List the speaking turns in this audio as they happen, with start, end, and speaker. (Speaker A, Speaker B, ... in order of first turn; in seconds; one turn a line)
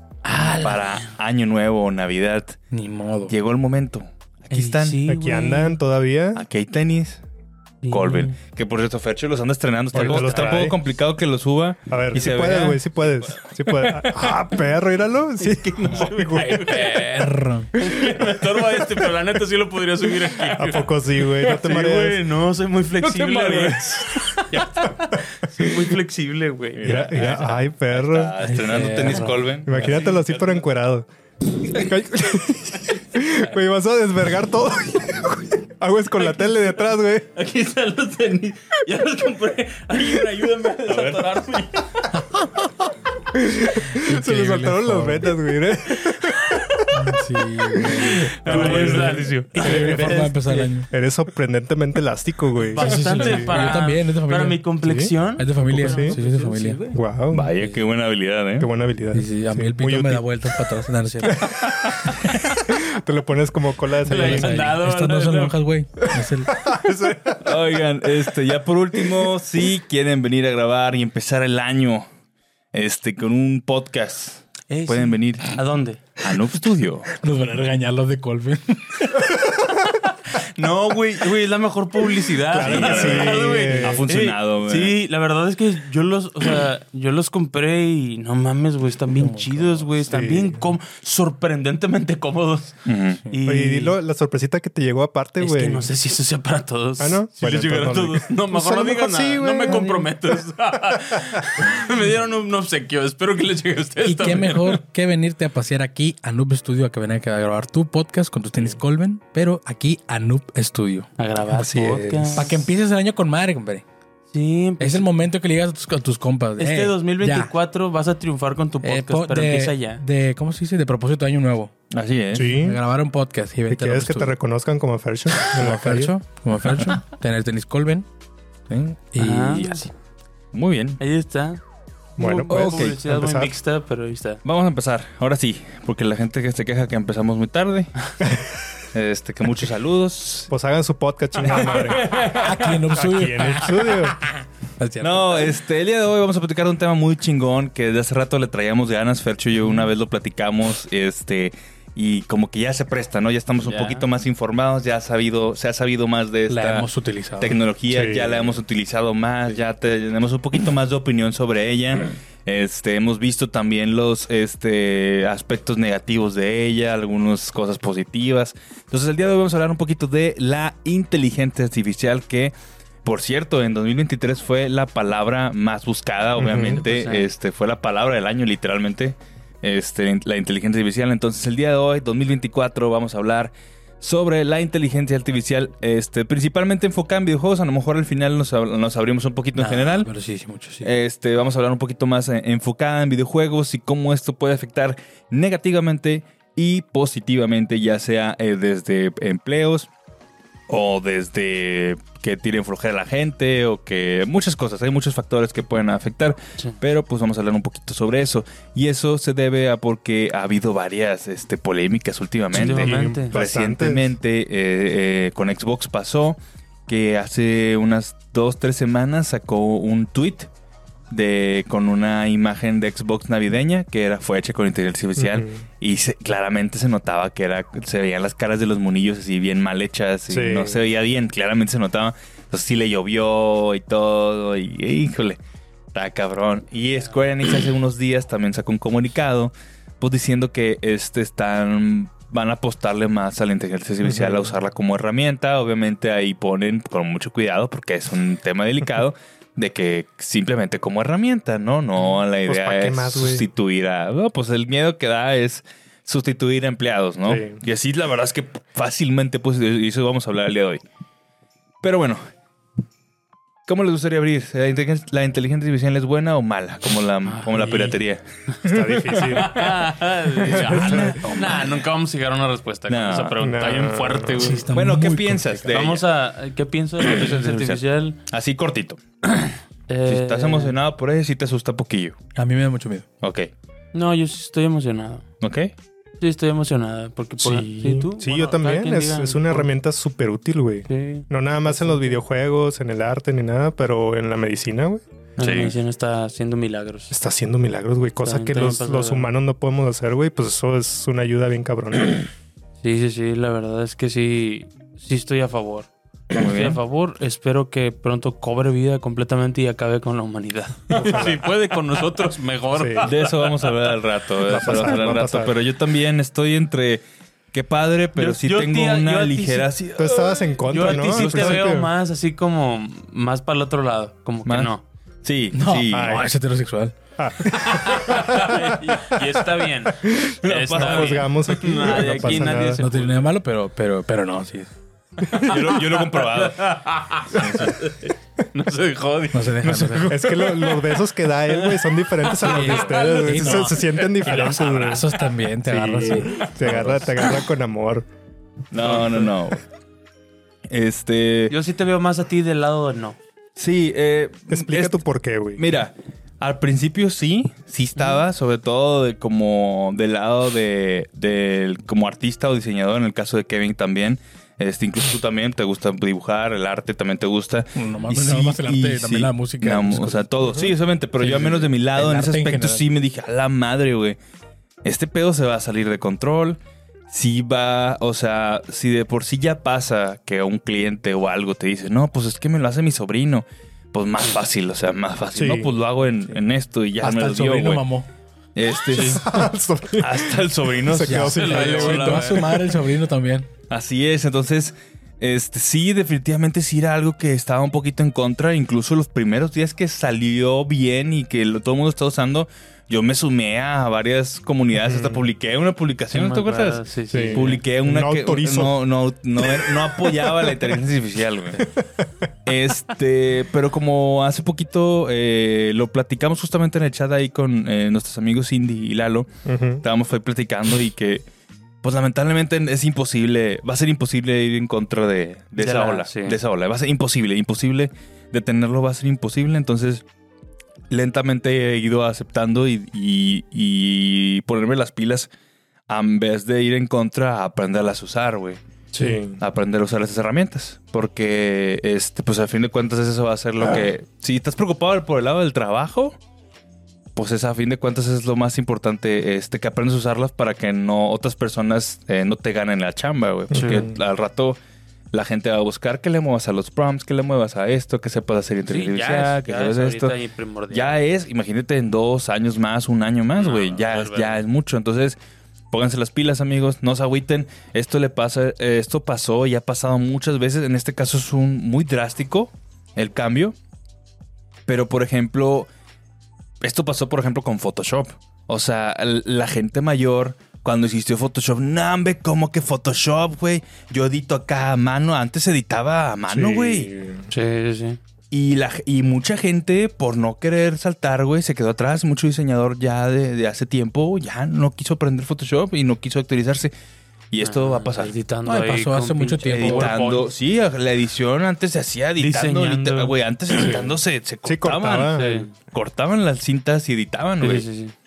Speaker A: 0.2-1.1
Speaker B: 0.4-2.6
Speaker C: 2.7-3.3
Speaker B: 3.3-5.0
Speaker A: 4.5-5.8
Speaker D: 5.1-6.4
Speaker B: 6.3-7.2
Speaker A: 7.8-8.3
Speaker B: 7.9-12.8
Speaker D: 9.9-10.7
Speaker A: 9.9-10.7
Speaker D: 11.9-16.9
Speaker A: 15.5-17.1
Speaker C: 16.4-17.8
Speaker A: 17.7-27.4
Speaker D: 20.5-22.2
Speaker B: 23.1-23.9
Speaker B: 24.5-24.9
Speaker B: 26.8-30.3
Speaker D: 26.8-28.3
Speaker C: 28.4-30.1
Speaker D: 29.6-31.1
Speaker A: 29.9-30.3
Speaker D: 31.6-37.3
Speaker A: 37.4-42.1
Speaker B: 40.9-41.2
Speaker D: 43.3-50.3
Speaker C: 43.9-45.3
Speaker C: 46.9-50.9
Speaker A: 48.0-50.7
Speaker B: 48.5-48.9
Speaker D: 50.9-53.7
Speaker A: 52.7-57.0
Speaker C: 52.7-54.6
Speaker D: 54.8-55.1
Speaker C: 55.4-56.8
Speaker D: 55.8-56.2
Speaker D: 56.9-57.5
Speaker B: 57.3-58.7
Speaker D: 58.6-60.3
Speaker C: 59.1-61.6
Speaker D: 61.3-64.7
Speaker A: 64.0-65.6
Speaker C: 64.0-66.7
Speaker D: 66.2-67.5
Speaker B: 67.3-72.0
Speaker B: 72.7-75.5
Speaker A: 74.7-76.0
Speaker B: 76.2-77.1
Speaker C: 77.1-79.5
Speaker A: 80.6-92.8
Speaker D: 82.5-84.0
Speaker B: 82.5-84.9
Speaker C: 89.2-89.8
Speaker D: 90.1-90.6
Speaker B: 92.8-93.2
Speaker A: 93.3-94.0
Speaker D: 93.5-95.9
Speaker A: 95.4-104.8
Speaker D: 97.0-100.1
Speaker C: 99.7-99.9
Speaker C: 104.0-111.1
Speaker A: 111.2-112.5
Speaker D: 111.5-112.5
Speaker C: 112.3-113.8
Speaker A: 114.3-115.0
Speaker C: 114.8-117.5
Speaker A: 116.6-120.0
Speaker C: 118.8-121.7
Speaker B: 121.9-122.6
Speaker D: 122.3-122.8
Speaker C: 122.6-124.3
Speaker D: 123.7-126.1
Speaker C: 125.5-128.1
Speaker C: 128.7-129.7
Speaker B: 128.7-129.9
Speaker A: 129.2-129.9
Speaker B: 130.5-131.0
Speaker A: 131.0-131.6
Speaker A: 132.2-134.4
Speaker D: 132.2-133.5
Speaker B: 132.5-133.0
Speaker B: 134.4-138.1
Speaker B: 138.9-140.5
Speaker D: 140.5-142.3
Speaker A: 142.0-142.4
Speaker C: 142.1-145.5
Speaker D: 142.9-144.2
Speaker B: 145.0-172.5
Speaker A: 153.6-154.0
Speaker C: 156.5-157.6
Speaker D: 157.9-158.6
Speaker B: 173.0-190.1
Speaker D: 176.4-176.8
Speaker A: 176.8-177.3
Speaker C: 189.6-190.9
Speaker B: 190.8-199.9
Speaker B: 200.7-220.5
Speaker A: 212.5-213.3
Speaker D: 212.5-214.1
Speaker B: 221.1-235.4
Speaker D: 225.2-225.6
Speaker D: 230.3-230.8
Speaker B: 235.9-260.8
Speaker D: 244.0-244.5
Speaker D: 252.4-253.4
Speaker D: 257.3-257.6
Speaker B: 261.8-262.2
Speaker B: 263.7-268.2
Speaker A: 267.2-267.9
Speaker D: 268.6-269.7
Speaker A: 269.1-274.6
Speaker B: 270.4-271.6
Speaker C: 270.7-271.6
Speaker B: 272.9-273.4
Speaker D: 273.4-274.5
Speaker C: 274.3-275.7
Speaker B: 274.7-276.0
Speaker A: 275.7-278.2
Speaker B: 277.0-279.5
Speaker A: 279.9-280.7
Speaker B: 280.1-282.2
Speaker C: 282.3-283.1
Speaker B: 283.2-283.5
Speaker A: 283.9-285.2
Speaker B: 285.4-285.7
Speaker A: 286.2-289.7
Speaker D: 287.5-295.0
Speaker A: 290.9-292.2
Speaker A: 295.4-297.1
Speaker B: 295.4-295.7
Speaker D: 297.1-302.2
Speaker A: 298.2-299.3
Speaker A: 302.8-313.7
Speaker B: 306.3-306.8
Speaker D: 310.9-311.4
Speaker D: 312.8-313.0
Speaker B: 313.0-317.0
Speaker D: 314.5-315.5
Speaker B: 317.5-321.7
Speaker A: 318.1-319.7
Speaker D: 320.0-321.9
Speaker A: 320.7-324.8
Speaker B: 325.2-326.2
Speaker C: 325.5-326.9
Speaker D: 325.9-326.3
Speaker D: 327.2-329.2
Speaker A: 327.6-333.2
Speaker D: 330.0-332.8
Speaker B: 330.4-332.5
Speaker C: 332.8-334.7
Speaker A: 335.4-340.6
Speaker B: 335.4-336.7
Speaker B: 337.4-337.6
Speaker C: 339.3-340.5
Speaker D: 340.0-345.0
Speaker C: 342.4-347.1
Speaker A: 342.4-345.0
Speaker D: 345.6-348.1
Speaker B: 346.7-346.9
Speaker B: 348.7-349.6
Speaker A: 348.8-349.3
Speaker B: 350.7-351.5
Speaker A: 351.5-353.2
Speaker B: 353.6-355.0
Speaker D: 354.5-355.6
Speaker B: 355.6-374.2
Speaker C: 367.7-370.6
Speaker C: 371.2-372.8
Speaker B: 374.8-376.6
Speaker B: 377.1-387.8
Speaker D: 385.3-385.7
Speaker C: 387.0-388.1
Speaker B: 388.6-389.4
Speaker D: 388.9-392.6
Speaker A: 388.9-389.2
Speaker B: 390.0-392.4
Speaker C: 391.0-393.5
Speaker A: 391.4-392.4
Speaker B: 393.7-411.7
Speaker D: 404.8-405.2
Speaker A: 406.1-407.6
Speaker D: 407.1-408.7
Speaker D: 409.4-410.5
Speaker B: 412.4-419.3
Speaker D: 419.5-419.8
Speaker B: 419.8-421.2
Speaker B: 421.8-430.0
Speaker A: 425.6-426.4
Speaker B: 430.9-435.3
Speaker B: 435.9-438.6
Speaker D: 438.9-439.4
Speaker B: 439.4-446.1
Speaker B: 447.1-454.6
Speaker A: 453.5-453.9
Speaker D: 453.5-453.9
Speaker B: 455.1-460.1
Speaker A: 458.7-461.0
Speaker B: 460.7-465.2
Speaker A: 463.4-464.4
Speaker B: 465.7-473.5
Speaker B: 474.7-475.7
Speaker B: 476.6-486.9
Speaker D: 486.3-487.2
Speaker A: 487.3-488.0
Speaker B: 488.3-496.7
Speaker B: 497.3-498.1
Speaker A: 497.4-500.3
Speaker C: 498.4-500.1
Speaker B: 499.5-507.6
Speaker A: 502.2-503.1
Speaker D: 504.4-505.5
Speaker A: 505.1-505.5
Speaker A: 507.4-507.9